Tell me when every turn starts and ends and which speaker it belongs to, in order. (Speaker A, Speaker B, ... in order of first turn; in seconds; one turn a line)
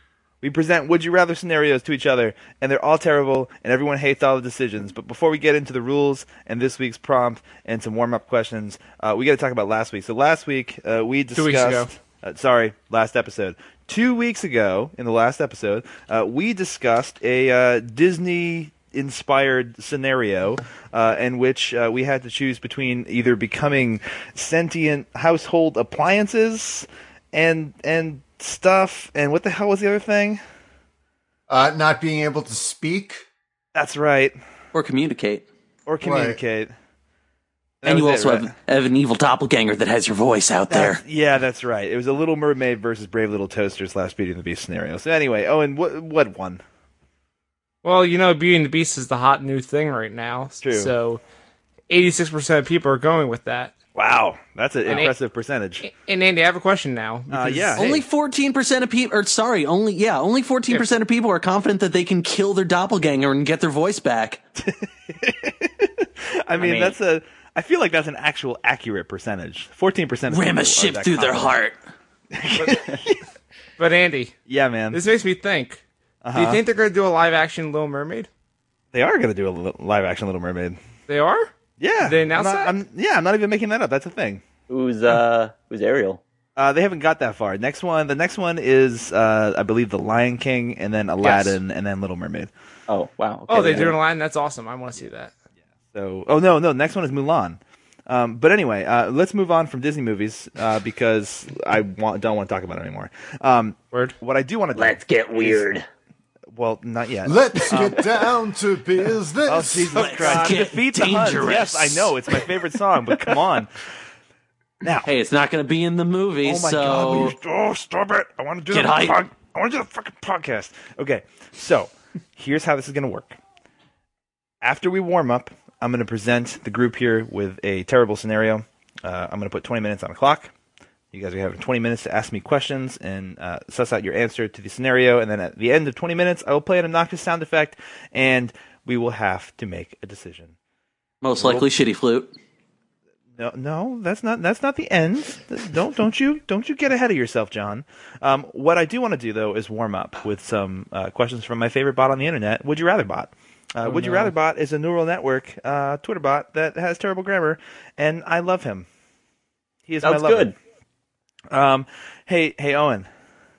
Speaker A: 0.4-30.4
Speaker B: 11.3-11.9
Speaker C: 31.5-33.2
Speaker A: 33.8-34.4
Speaker D: 34.7-35.5
Speaker A: 35.9-36.7
Speaker C: 36.0-36.4
Speaker A: 37.8-38.5
Speaker D: 37.9-41.0
Speaker A: 40.7-46.6
Speaker B: 47.8-51.2
Speaker A: 50.6-50.9
Speaker B: 51.9-53.7
Speaker A: 54.0-55.9
Speaker B: 54.9-55.1
Speaker B: 55.8-58.0
Speaker A: 57.3-58.0
Speaker D: 57.8-64.4
Speaker A: 64.6-71.6
Speaker E: 66.6-67.0
Speaker D: 70.3-71.8
Speaker A: 72.3-73.2
Speaker B: 73.8-74.3
Speaker A: 74.5-75.0
Speaker B: 74.9-75.8
Speaker A: 76.2-76.6
Speaker B: 76.3-78.3
Speaker A: 78.9-80.8
Speaker B: 81.1-82.8
Speaker A: 81.8-84.4
Speaker E: 84.7-86.2
Speaker A: 86.6-92.5
Speaker E: 91.2-91.6
Speaker E: 92.9-94.0
Speaker B: 93.5-95.3
Speaker A: 95.9-105.7
Speaker E: 104.8-105.9
Speaker A: 106.5-108.3
Speaker C: 107.2-110.0
Speaker A: 109.5-113.9
Speaker D: 109.9-112.2
Speaker B: 110.2-110.5
Speaker A: 114.8-115.1
Speaker D: 115.0-117.3
Speaker A: 116.4-123.4
Speaker D: 118.7-119.2
Speaker A: 124.6-130.5
Speaker A: 131.1-140.6
Speaker D: 141.2-142.3
Speaker A: 141.4-141.7
Speaker A: 143.4-158.9
Speaker B: 153.8-154.3
Speaker A: 159.9-160.5
Speaker E: 160.0-160.6
Speaker A: 161.5-163.1